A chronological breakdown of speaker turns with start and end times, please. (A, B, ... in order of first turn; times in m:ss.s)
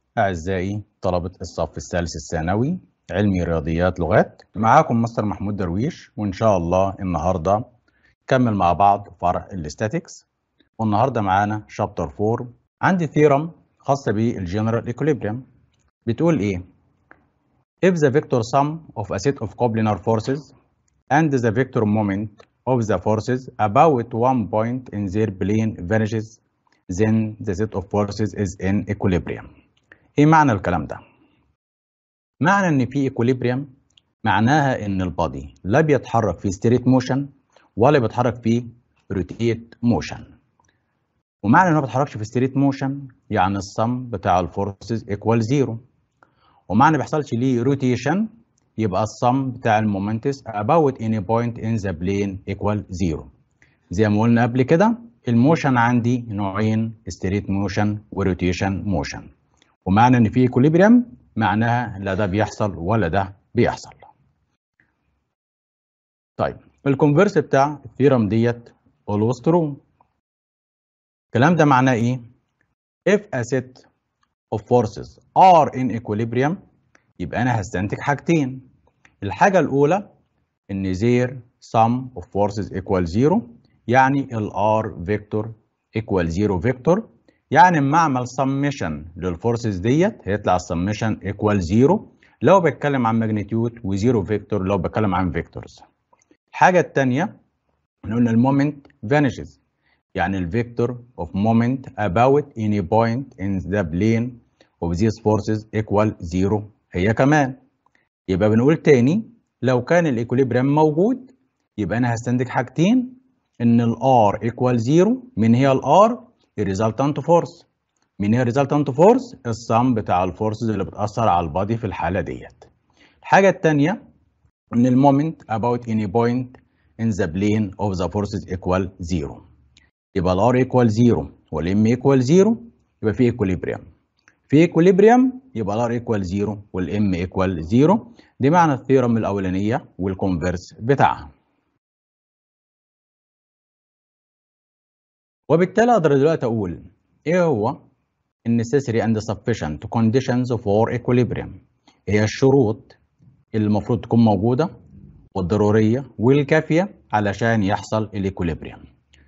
0:00.2-0:07.6 A
0:08.3-0:10.2 A
0:10.8-0:15.4 A
0:16.0-0:16.6 A
0:17.8-0:20.5 A
0:21.1-0:29.5 A
0:30.2-0:31.0 A
0:32.4-0:33.7 A
0:34.2-0:40.2 A
0:41.4-0:45.8 A
0:46.7-0:53.3 A
0:53.9-0:59.3 A
0:59.9-1:04.1 A
1:06.4-1:09.8 A
1:11.3-1:12.2 A
1:13.1-1:13.9 A
1:14.5-1:16.6 A
1:17.2-1:18.7 A
1:19.2-1:20.0 A
1:20.7-1:35.8 A
1:36.5-1:37.3 A
1:38.0-1:39.6 A
1:40.2-1:47.6 A
1:48.3-1:57.7 A
1:58.2-2:02.7 A
2:03.2-2:04.0 A
2:04.7-2:09.4 A
2:10.2-2:13.8 A
2:14.5-2:21.3 A
2:25.5-2:27.8 A
2:28.4-2:33.0 A
2:33.5-2:34.7 A
2:35.3-2:38.8 A